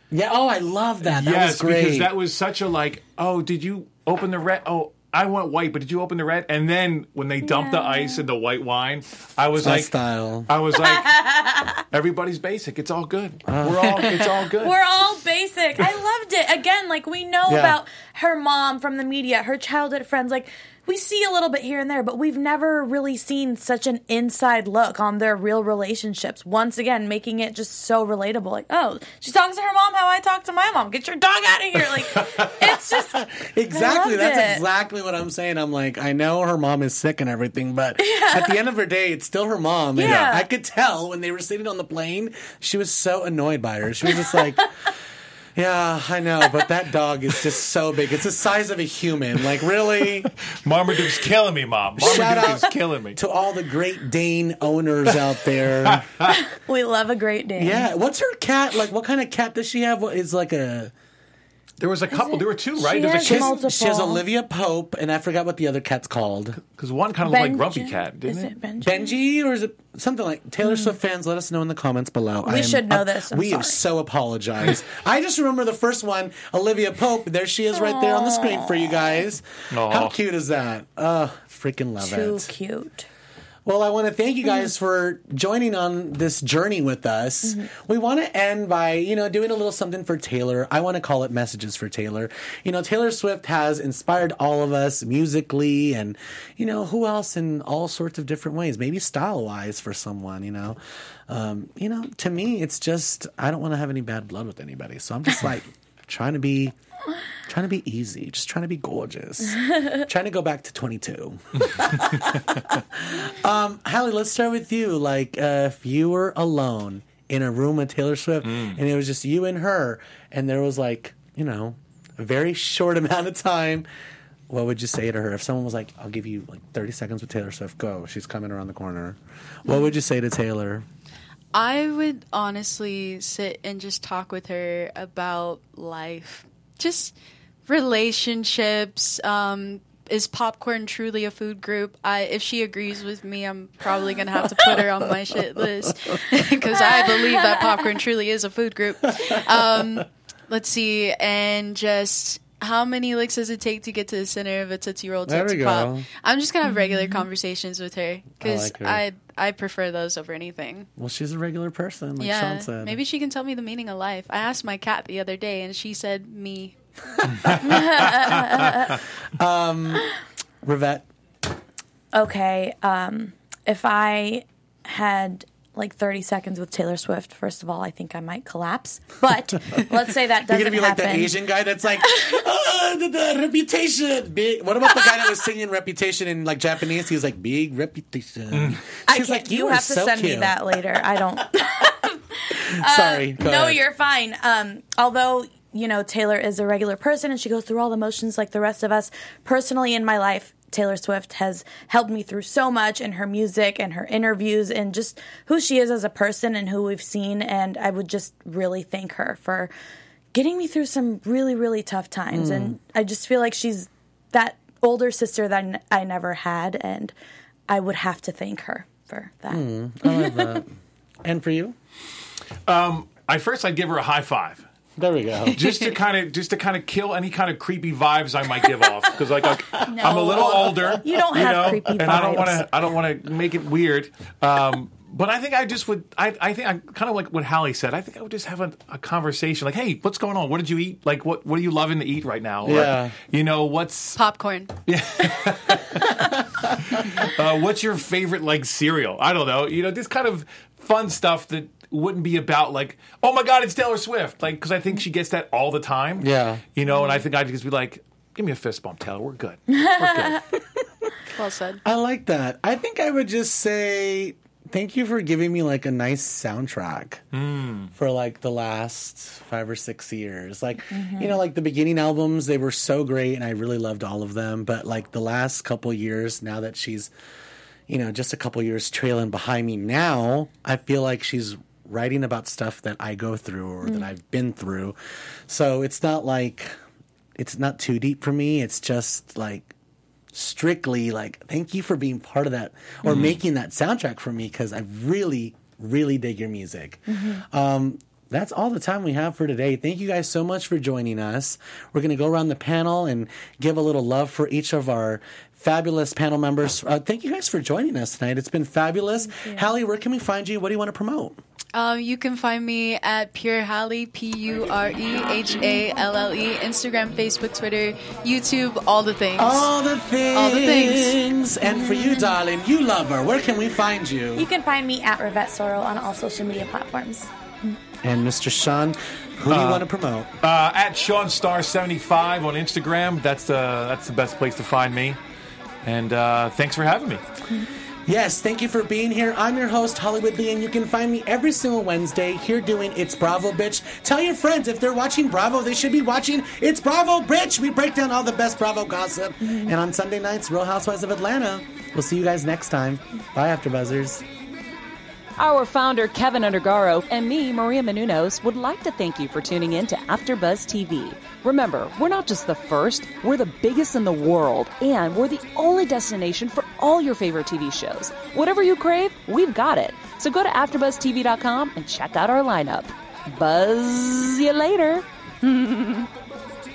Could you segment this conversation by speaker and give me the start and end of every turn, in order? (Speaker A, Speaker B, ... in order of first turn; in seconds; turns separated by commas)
Speaker A: 0.1-2.1, Speaker B: 1.0-9.9, Speaker C: 7.4-8.2, Speaker A: 9.6-10.5, Speaker B: 10.5-11.2, Speaker C: 10.8-11.8, Speaker B: 11.9-14.8, Speaker A: 13.5-14.2, Speaker C: 14.6-34.6, Speaker A: 17.5-17.8, Speaker A: 32.5-44.7, Speaker C: 38.0-38.5, Speaker C: 39.9-40.5, Speaker B: 40.0-40.3, Speaker A: 45.5-50.3, Speaker B: 50.6-53.2, Speaker A: 52.0-56.1, Speaker B: 55.9-56.4, Speaker C: 56.3-57.9, Speaker A: 57.6-60.9, Speaker B: 61.8-63.6, Speaker C: 62.1-64.2, Speaker A: 63.2-66.6, Speaker B: 66.7-68.5, Speaker C: 67.2-69.1, Speaker A: 68.8-82.5, Speaker C: 72.5-73.8, Speaker C: 77.8-79.0, Speaker B: 79.7-80.1, Speaker C: 82.0-83.1, Speaker A: 83.6-106.7, Speaker A: 107.5-123.8, Speaker B: 111.6-112.4, Speaker B: 118.4-118.8, Speaker A: 124.5-130.8, Speaker D: 131.5-137.1, Speaker D: 137.7-160.9, Speaker A: 144.4-146.2, Speaker C: 146.9-147.6, Speaker A: 149.1-150.0, Speaker A: 155.3-156.1, Speaker C: 156.7-157.2, Speaker A: 158.4-159.0, Speaker A: 161.0-163.0, Speaker D: 162.2-166.7, Speaker A: 167.3-170.1, Speaker B: 167.4-168.3, Speaker C: 167.6-168.8, Speaker A: 170.6-171.1, Speaker C: 172.1-181.3, Speaker A: 180.5-190.5, Speaker B: 188.5-188.8, Speaker C: 189.1-209.7, Speaker A: 192.6-193.8, Speaker C: 210.3-217.1, Speaker A: 212.3-212.8, Speaker C: 217.7-220.6, Speaker A: 219.5-220.7, Speaker A: 221.2-221.7, Speaker B: 222.7-224.6, Speaker A: 225.0-225.6, Speaker B: 225.5-244.2, Speaker C: 229.8-232.7, Speaker A: 242.6-243.2, Speaker D: 244.2-244.7, Speaker B: 244.8-260.4, Speaker A: 256.2-256.6, Speaker D: 261.3-261.8, Speaker A: 261.8-267.2, Speaker B: 267.3-267.9, Speaker A: 267.9-277.1, Speaker C: 270.9-271.4, Speaker A: 277.9-284.9, Speaker A: 285.5-286.7, Speaker A: 287.4-289.7, Speaker A: 290.3-311.4, Speaker B: 293.0-293.4, Speaker C: 297.1-297.4, Speaker C: 309.4-309.7, Speaker D: 311.7-319.7, Speaker A: 319.4-324.5, Speaker D: 320.3-321.2, Speaker C: 321.7-322.3, Speaker C: 324.4-327.3, Speaker A: 328.0-330.3, Speaker B: 329.5-329.9, Speaker B: 330.4-335.2, Speaker B: 335.8-337.2, Speaker A: 338.1-354.2, Speaker E: 355.4-376.0